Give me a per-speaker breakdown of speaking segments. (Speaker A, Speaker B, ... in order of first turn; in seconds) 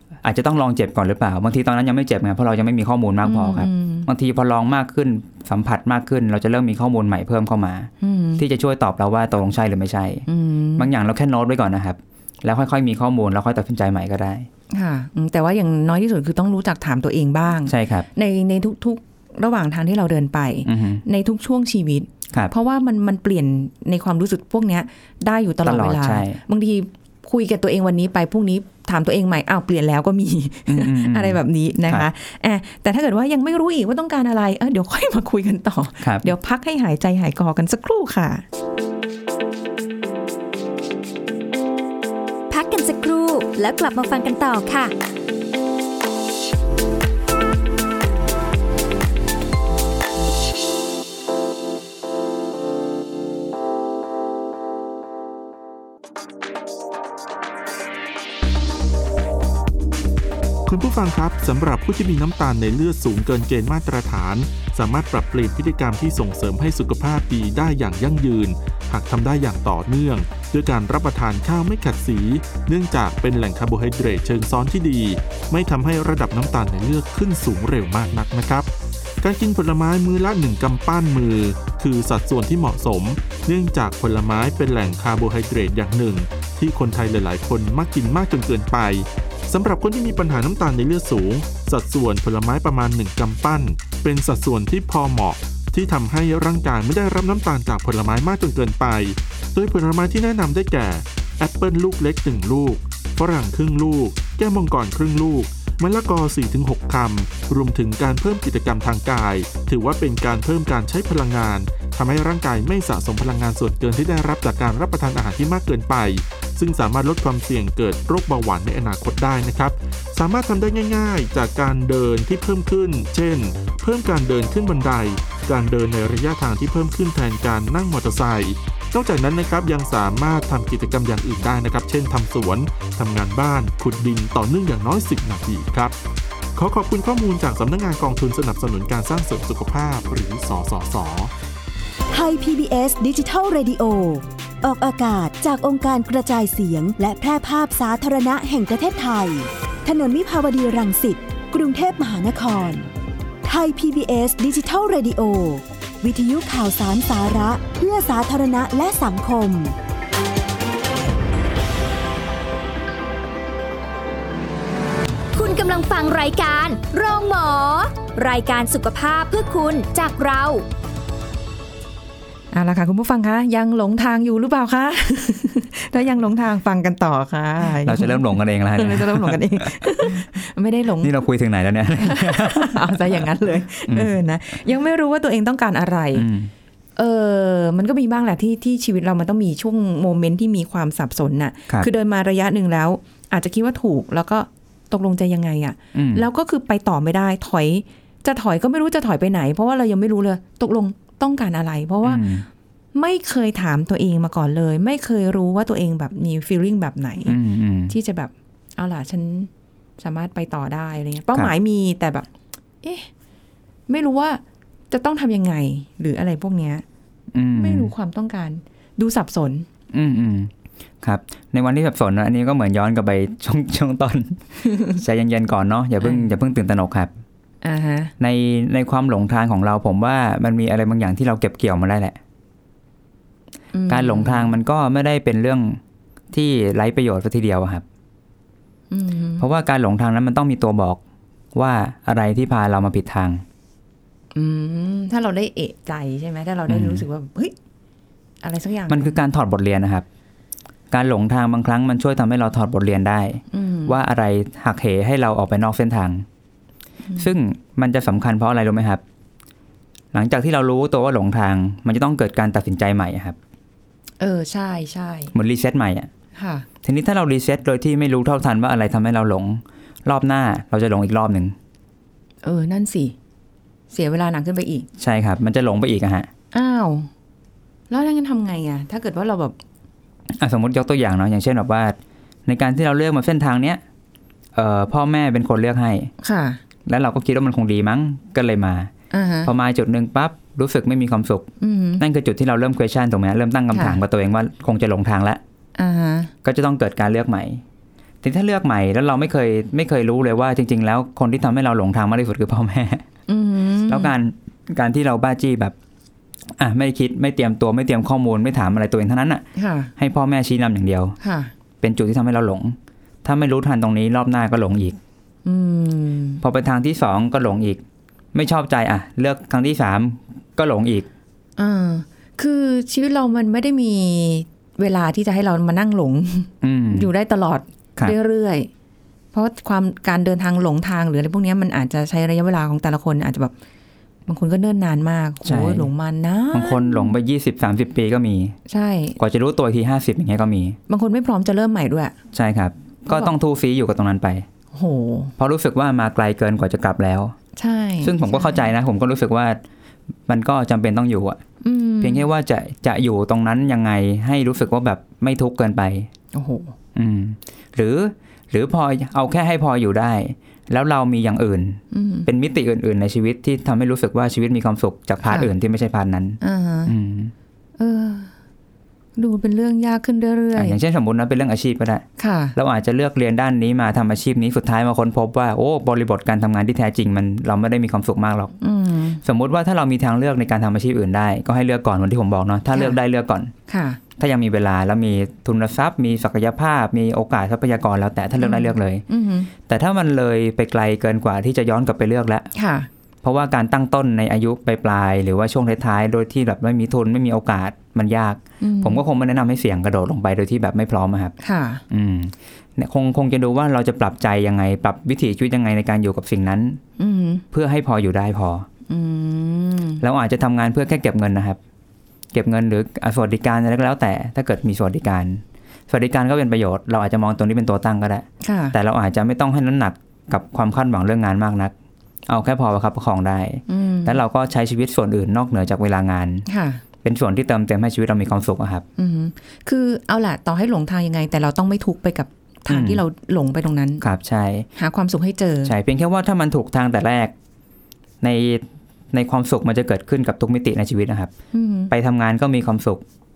Speaker A: 0.2-10.2, 10.8-14.5, 17.7-18.1, 20.7-21.0, 25.6-26.4, 30.7-32.1, 36.0-36.3, 177.6-180.2, 181.0-183.2, 183.9-184.2, 186.1-186.5, 195.9-196.2, 202.0-202.5, 207.2-207.9, 217.3-217.9, 219.9-220.5, 221.0-227.1, 228.2-232.2, 233.9-235.8, 236.3-237.8, 239.4-241.0, 241.5-243.4, 246.7-247.0, 248.9-250.1, 250.9-256.2, 257.2-259.0, 260.1-263.4, 265.3-266.1, 266.8-271.6, 275.0-276.3, 280.3-283.8, 284.5-286.1, 286.9-288.9, 289.4-295.4, 296.4-297.6, 298.2-303.0, 303.9-305.8, 306.6-311.2, 311.8-315.0, 316.4-317.8, 318.3-321.1, 326.6-327.1, 335.4-335.9, 336.5-338.6, 339.2-340.8, 342.3-344.5, 345.4-347.4, 348.0-349.6, 350.3-351.4, 352.0-356.1, 356.9-367.3, 370.5-378.6, 379.2-383.5, 384.2-389.0, 389.6-392.5, 393.2-401.4, 401.9-406.8, 407.5-408.7, 410.0-411.6, 412.3-421.7, 422.3-426.5, 427.0-428.9, 432.7-433.0, 434.0-434.7, 435.6-437.3, 438.2-441.3, 441.9-443.0
Speaker B: 3.2-4.1, 8.0-8.4, 10.3-10.9, 14.7-38.4, 172.5-181.1, 182.0-186.3, 187.0-202.4, 202.9-207.4, 207.9-212.3, 212.8-213.1, 213.9-216.8, 217.6-219.7, 226.0-226.3, 227.6-228.1, 233.7-234.5, 238.9-239.4, 244.3-247.5, 248.4-249.2, 253.5-254.0, 264.2-265.4, 266.4-266.7, 272.4-273.1, 273.9-274.9, 276.5-277.1, 277.9-279.6, 286.2-286.6, 289.1-289.5, 291.6-292.0, 293.7-294.0, 295.8-296.3, 303.3-304.1, 309.6-309.9, 311.2-311.5, 315.4-316.4, 321.6-328.7, 329.3-333.5, 334.3-337.1, 338.7-339.2, 340.9-342.2, 344.7-345.3, 347.6-348.7, 351.6-352.3, 356.3-356.8, 361.9-362.3, 365.2-365.5, 366.4-366.9, 367.8-368.3, 369.2-370.8, 372.2-372.5, 378.6-379.2, 383.7-384.0, 388.4-389.5, 392.5-392.9, 398.6-399.0, 401.4-401.8, 407.0-407.4, 408.9-410.0, 418.4-418.8, 423.7-424.2, 426.5-426.8, 429.0-434.0, 434.8-435.8, 441.5-441.9
Speaker C: 42.5-44.9, 165.3-170.7
Speaker D: 60.7-78.7, 79.2-135.9, 136.5-141.3
Speaker E: 142.1-152.9, 153.4-159.8